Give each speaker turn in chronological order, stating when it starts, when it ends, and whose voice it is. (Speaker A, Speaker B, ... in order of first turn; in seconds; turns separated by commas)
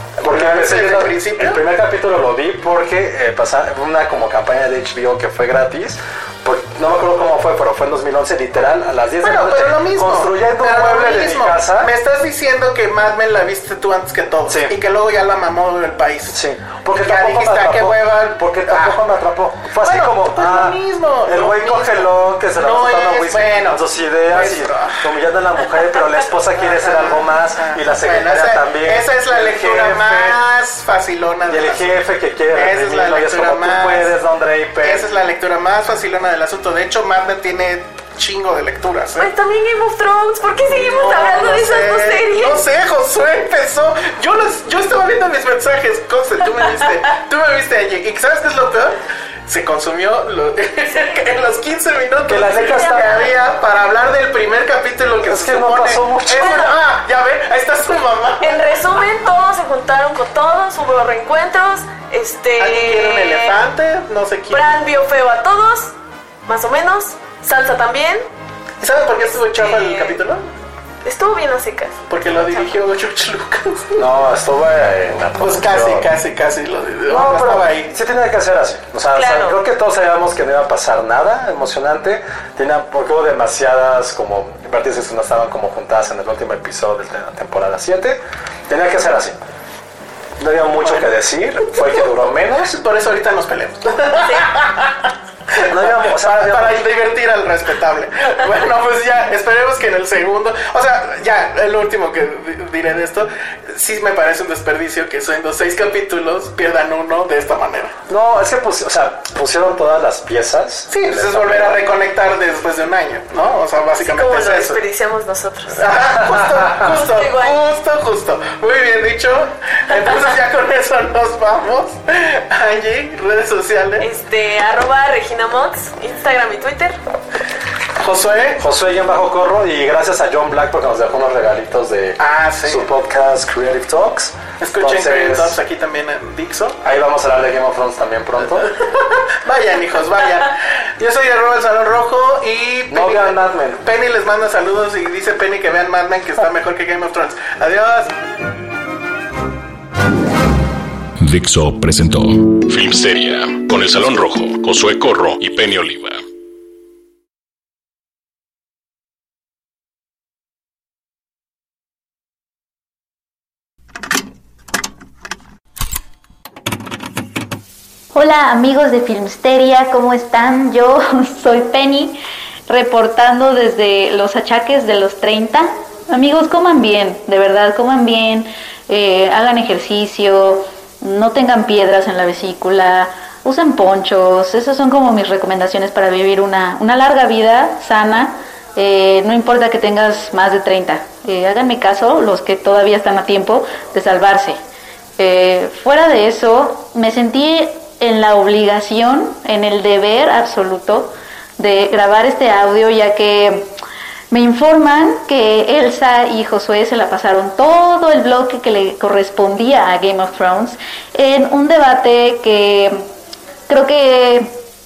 Speaker A: 0.2-11.9, Speaker B: 0.2-1.6, Speaker B: 9.2-16.4, Speaker A: 14.5-14.8, Speaker A: 16.3-30.4, Speaker B: 16.9-19.0, Speaker B: 19.8-25.1, Speaker B: 26.6-32.0, Speaker A: 31.5-35.1, Speaker B: 32.5-34.1, Speaker B: 34.8-39.3, Speaker C: 39.2-42.6, Speaker B: 40.7-58.6, Speaker A: 52.3-53.3, Speaker C: 52.6-53.3, Speaker A: 55.2-56.7, Speaker C: 56.4-56.7, Speaker C: 58.4-63.6, Speaker B: 62.6-64.7, Speaker C: 64.5-65.9, Speaker C: 66.5-68.3, Speaker B: 68.8-70.4, Speaker C: 69.2-70.2, Speaker C: 71.0-72.8, Speaker B: 72.1-74.1, Speaker A: 74.0-76.1, Speaker B: 75.4-78.0, Speaker A: 77.1-89.4, Speaker C: 79.1-79.6, Speaker A: 90.4-92.8, Speaker B: 90.8-91.1, Speaker B: 91.6-108.0, Speaker A: 95.6-96.8, Speaker A: 108.1-111.8, Speaker B: 110.9-114.8, Speaker C: 114.0-115.9, Speaker B: 115.7-124.1, Speaker C: 116.7-117.6, Speaker C: 124.0-127.0, Speaker B: 128.0-128.6, Speaker A: 128.6-135.6, Speaker B: 132.2-132.9, Speaker B: 134.6-136.8, Speaker A: 136.8-138.7, Speaker B: 138.6-148.1, Speaker A: 142.9-143.8, Speaker D: 151.2-156.2, Speaker E: 168.1-194.6, Speaker E: 195.2-203.7, Speaker E: 204.3-213.1, Speaker E: 213.7-214.6